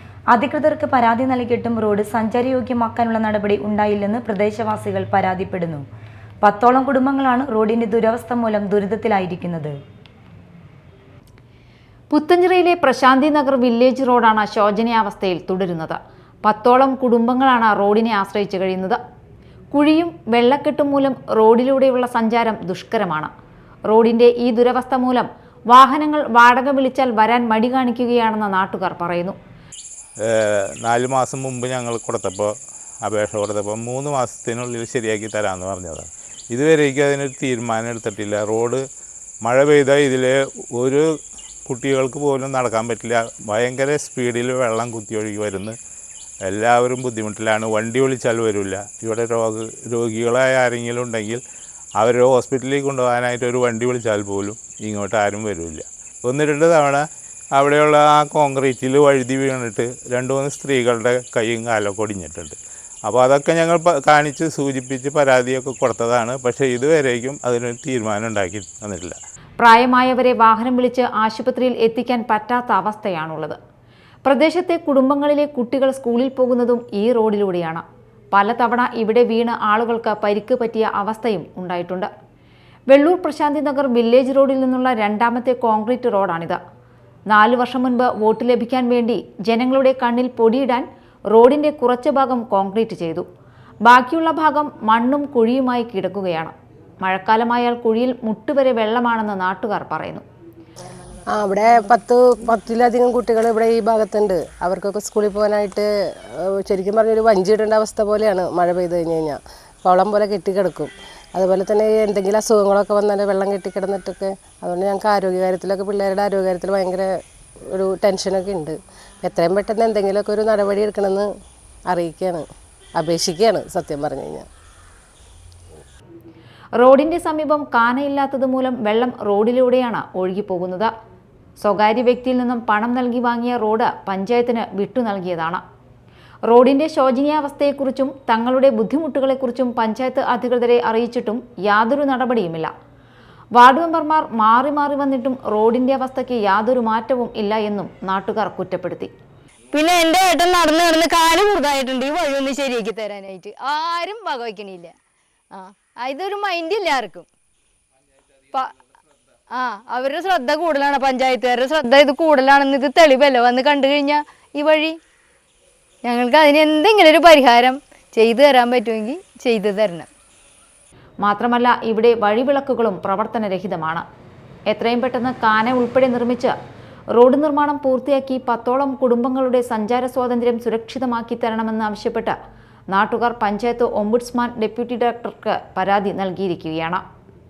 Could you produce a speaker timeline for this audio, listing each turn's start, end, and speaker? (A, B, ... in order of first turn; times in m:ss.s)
0:00.3-0:05.8 A
0:06.4-0:09.8 A
0:12.1-0:19.0 B
0:19.7-0:23.3 B
0:23.9-0:29.4 B
0:30.2-0:38.8 C
0:39.4-0:41.0 C
0:41.7-0:45.8 C
0:46.5-0:51.4 C
0:52.0-0:57.0 C
0:57.6-1:09.2 C
1:09.6-1:13.6 B
1:14.2-1:22.1 B
1:22.9-1:26.6 B
1:27.3-1:33.2 B
1:33.9-1:36.5 B
1:37.0-1:40.2 B
1:41.3-1:57.1 D
1:57.7-2:01.3 D
2:01.9-2:02.4 D
2:03.0-2:04.5 D
2:06.8-2:10.9 B
2:11.6-2:15.6 B
2:16.5-2:22.7 B
2:23.6-2:29.1 B
2:29.7-2:34.9 E
2:35.5-2:37.3 E
2:39.5-2:45.0 E
2:46.0-2:50.1 E
2:51.2-2:54.0 B
2:54.7-2:56.5 B
2:57.1-3:02.4 B
3:02.9-3:07.0 B